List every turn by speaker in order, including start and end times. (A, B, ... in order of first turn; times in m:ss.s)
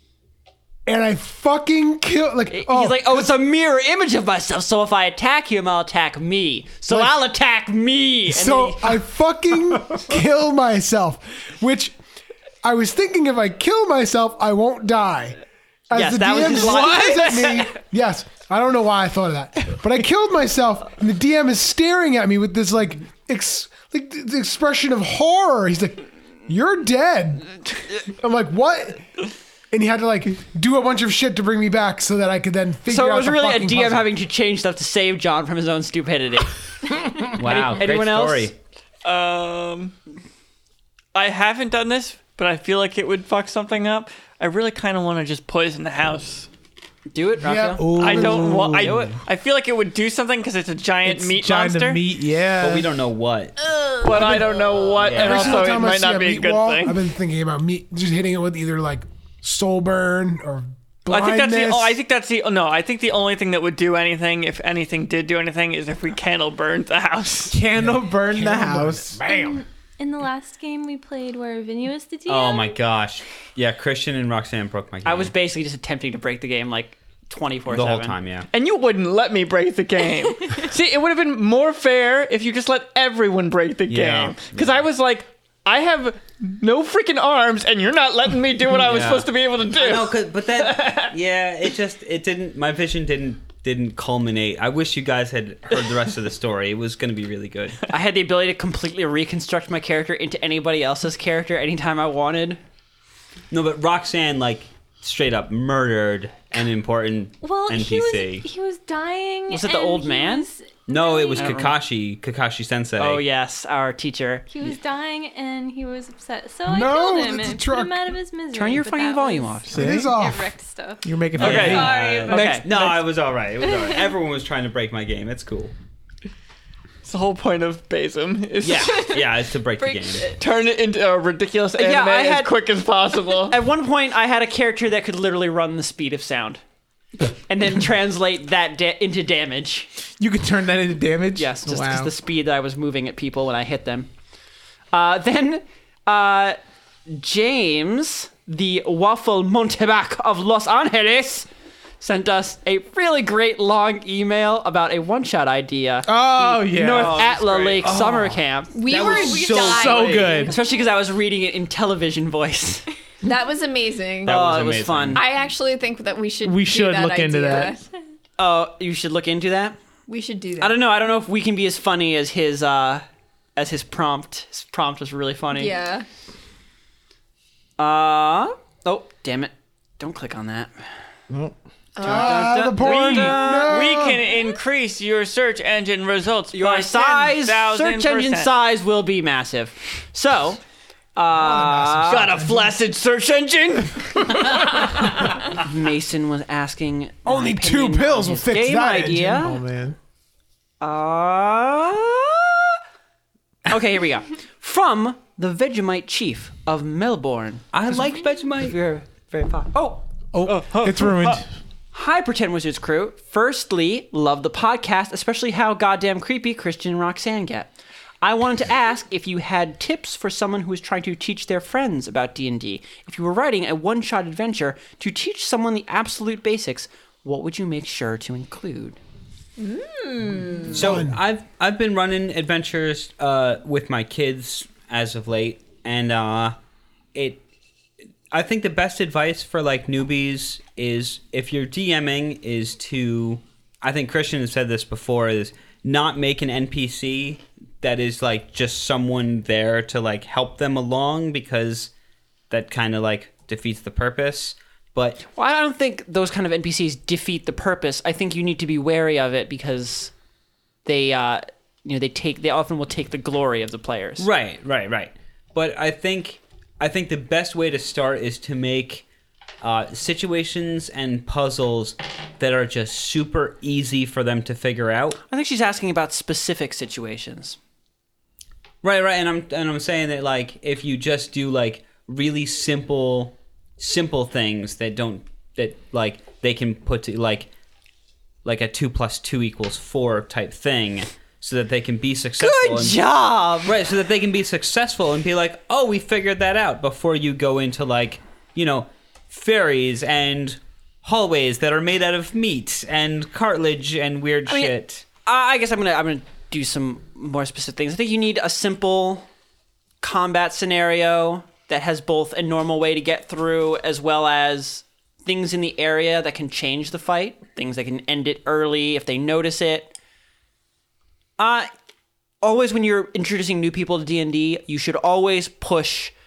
0:00.8-0:03.3 A
0:02.5-0:09.0 B
0:08.3-0:11.9 A
0:12.6-0:15.4 A
0:15.9-0:29.0 A
0:15.9-0:17.7 B
0:29.7-0:34.1 A
0:32.9-0:38.5 B
0:37.3-0:38.5 C
0:39.0-0:39.9 D
0:41.1-0:46.5 D
0:47.1-0:49.2 B
0:47.4-0:48.7 A
0:47.8-0:49.2 E
0:48.0-0:52.0 D
0:51.0-0:52.9 E
0:52.6-0:53.6 C
0:54.0-0:57.0 D
0:54.2-0:54.5 A
0:54.9-0:55.8 C
0:55.0-1:02.0 A
1:01.1-1:07.6 D
1:07.5-1:09.3 E
1:07.7-1:09.5 A
1:09.2-1:12.8 F
1:12.3-1:15.3 C
1:15.0-1:18.2 B
1:17.7-1:18.5 C
1:18.5-1:31.1 D
1:23.9-1:24.8 C
1:28.8-1:37.8 C
1:37.9-1:42.6 B
1:43.5-1:48.5 C
1:47.4-1:51.7 F
1:49.5-1:50.5 B
1:50.9-1:53.2 C
1:51.4-1:51.7 B
1:53.0-1:54.5 B
1:54.5-2:02.5 F
1:56.7-1:58.1 A
1:58.5-2:00.0 B
1:59.7-2:00.1 E
1:59.7-2:00.5 A
2:01.0-2:01.9 E
2:01.4-2:05.7 C
2:01.4-2:03.0 D
2:02.3-2:02.9 B
2:03.6-2:04.2 F
2:07.0-2:09.2 D
2:08.6-2:10.3 C
2:09.8-2:10.3 G
2:10.3-2:13.6 D
2:11.8-2:12.5 B
2:13.5-2:16.6 B
2:17.5-2:19.9 B
2:20.2-2:22.1 E
2:21.4-2:24.1 B
2:24.9-2:31.5 B
2:32.0-2:39.3 B
2:36.0-2:37.3 E
2:36.8-2:37.8 D
2:37.7-2:40.3 C
2:38.7-2:40.5 G
2:38.9-2:40.7 F
2:39.6-2:40.6 E
2:40.4-2:42.9 B
2:43.2-2:44.4 G
2:44.2-2:45.2 C
2:44.3-2:45.2 B
2:45.1-2:47.8 G
2:46.4-2:47.8 E
2:48.4-2:49.8 B
2:50.1-2:50.8 G
2:50.6-2:53.0 B
2:53.6-2:55.7 B
2:55.5-2:56.1 G
2:57.8-3:00.7 B
3:01.3-3:01.6 E
3:02.0-3:02.3 G
3:02.0-3:03.9 B
3:02.0-3:04.3 A
3:02.8-3:08.5 D
3:06.5-3:10.6 B
3:11.2-3:12.4 B
3:11.4-3:12.7 A
3:12.1-3:14.8 D
3:15.4-3:19.6 B
3:17.3-3:19.5 A
3:19.3-3:20.0 E
3:20.8-3:22.8 B
3:23.6-3:28.1 B
3:27.7-3:28.8 C
3:28.6-3:30.0 B
3:30.3-3:31.4 E
3:30.4-3:31.4 D
3:31.9-3:37.7 B
3:38.2-3:49.0 B
3:49.6-3:50.9 G
3:50.7-3:56.6 C
3:50.7-3:51.2 A
3:57.1-3:57.4 C
3:58.3-4:11.9 C
4:12.5-4:15.2 C
4:15.2-4:20.1 B
4:20.8-4:24.3 B
4:24.2-4:29.0 C
4:29.6-4:35.2 C
4:35.3-4:37.6 B
4:38.8-4:47.5 C
4:48.4-4:53.0 C
4:52.4-4:53.8 B
4:53.6-5:05.0 C
5:04.4-5:04.7 B
5:05.2-5:09.3 B
5:10.0-5:19.9 B
5:21.4-5:21.7 B
5:22.4-5:26.1 B